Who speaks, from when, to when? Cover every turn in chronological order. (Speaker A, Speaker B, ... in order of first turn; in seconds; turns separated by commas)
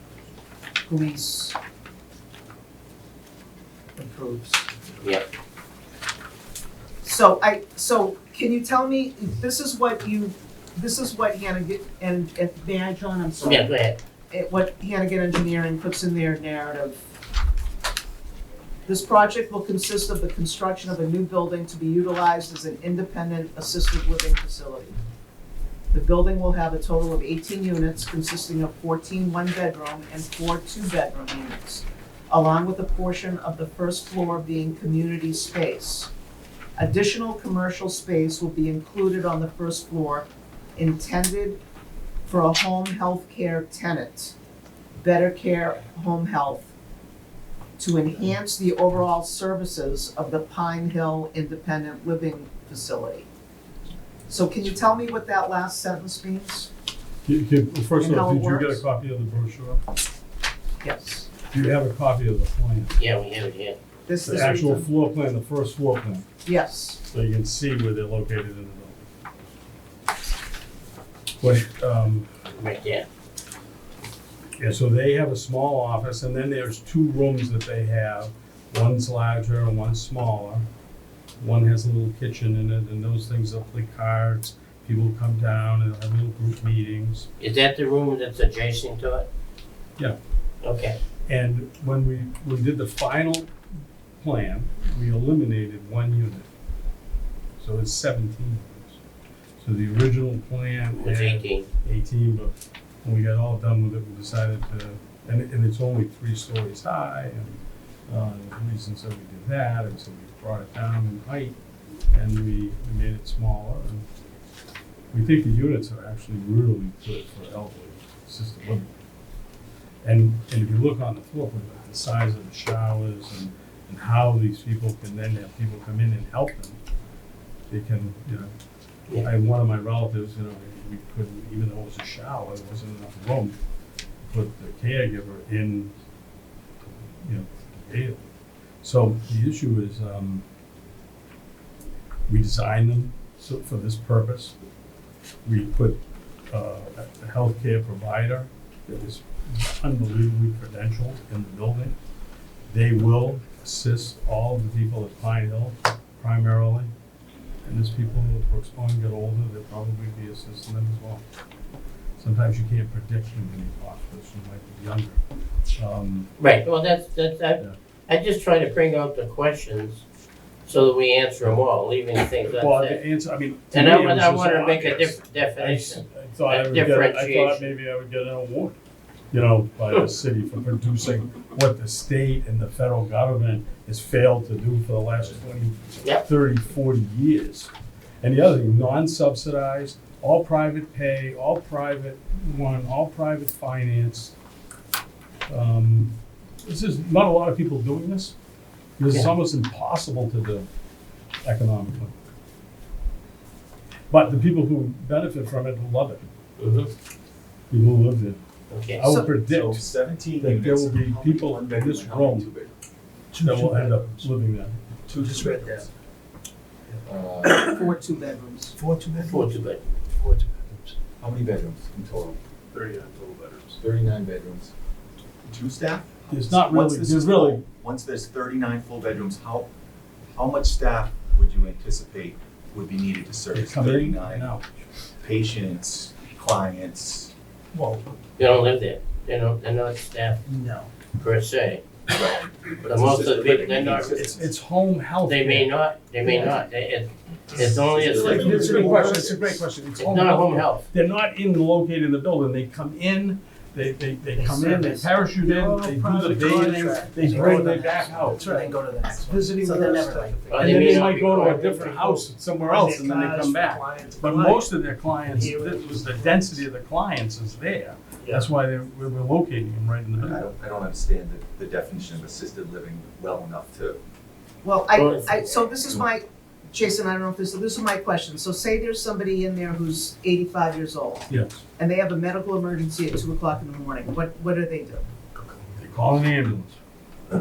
Speaker A: 0.8-1.6, Speaker A: 4.0-4.7, Speaker A: 7.0-13.8, Speaker B: 13.4-14.0, Speaker A: 14.3-17.0, Speaker A: 18.9-25.0, Speaker A: 25.9-36.1, Speaker A: 36.8-41.6, Speaker A: 42.2-44.3, Speaker A: 45.0-46.7, Speaker A: 47.8-53.3, Speaker A: 54.3-56.7, Speaker C: 57.2-59.8, Speaker A: 58.0-58.8, Speaker A: 60.8-61.3, Speaker C: 61.5-62.9, Speaker B: 63.0-63.8, Speaker A: 64.0-64.9, Speaker C: 64.2-66.3, Speaker A: 66.4-67.0, Speaker C: 67.1-69.0, Speaker C: 71.4-72.3, Speaker B: 72.5-73.0, Speaker C: 74.6-80.7, Speaker C: 81.4-87.3, Speaker B: 87.4-89.3, Speaker B: 90.6-91.0, Speaker C: 91.3-93.5, Speaker C: 94.2-96.5, Speaker C: 97.6-99.0, Speaker C: 99.6-111.5, Speaker B: 101.0-101.7, Speaker C: 112.1-114.0, Speaker C: 115.1-118.9, Speaker C: 120.0-126.8, Speaker C: 127.7-128.5, Speaker C: 129.2-133.6, Speaker C: 134.2-135.9, Speaker C: 137.2-138.3, Speaker C: 138.8-140.4, Speaker C: 142.3-144.6, Speaker C: 145.4-152.0, Speaker C: 152.7-156.9, Speaker C: 157.6-161.2, Speaker C: 162.2-165.2, Speaker C: 165.7-166.3, Speaker B: 166.4-170.0, Speaker B: 170.6-173.0, Speaker C: 172.6-178.7, Speaker B: 173.7-177.7, Speaker C: 179.3-194.3, Speaker C: 195.5-198.3, Speaker C: 199.0-200.7, Speaker C: 201.4-202.1, Speaker C: 204.1-206.3, Speaker B: 206.6-206.9, Speaker C: 207.7-208.4, Speaker B: 208.7-209.1, Speaker C: 209.0-209.8, Speaker A: 209.0-209.4, Speaker D: 209.4-212.7, Speaker C: 210.4-212.5, Speaker E: 213.3-214.3, Speaker C: 213.4-214.8, Speaker D: 215.1-215.9, Speaker D: 217.0-217.8, Speaker A: 217.6-218.8, Speaker D: 218.8-219.5, Speaker B: 219.2-219.8, Speaker E: 220.1-220.9, Speaker D: 221.2-222.4, Speaker F: 223.2-223.5, Speaker D: 223.8-224.7, Speaker D: 225.4-229.7, Speaker C: 226.3-227.6, Speaker D: 230.3-234.5, Speaker C: 233.5-234.7, Speaker D: 235.2-237.3, Speaker E: 237.7-238.0, Speaker B: 238.4-240.4, Speaker E: 240.5-240.9, Speaker B: 241.1-241.8, Speaker D: 242.1-244.5, Speaker B: 242.8-244.2, Speaker C: 244.1-245.7, Speaker B: 245.2-248.8, Speaker D: 247.6-249.5, Speaker E: 248.1-249.6, Speaker C: 248.2-258.7, Speaker B: 250.0-250.9, Speaker E: 254.3-266.6, Speaker F: 257.3-257.8, Speaker C: 259.3-270.4, Speaker F: 259.3-260.3, Speaker B: 260.5-261.9, Speaker D: 270.2-274.0, Speaker A: 274.6-285.0, Speaker B: 274.9-275.4, Speaker C: 281.3-281.6, Speaker C: 285.8-286.8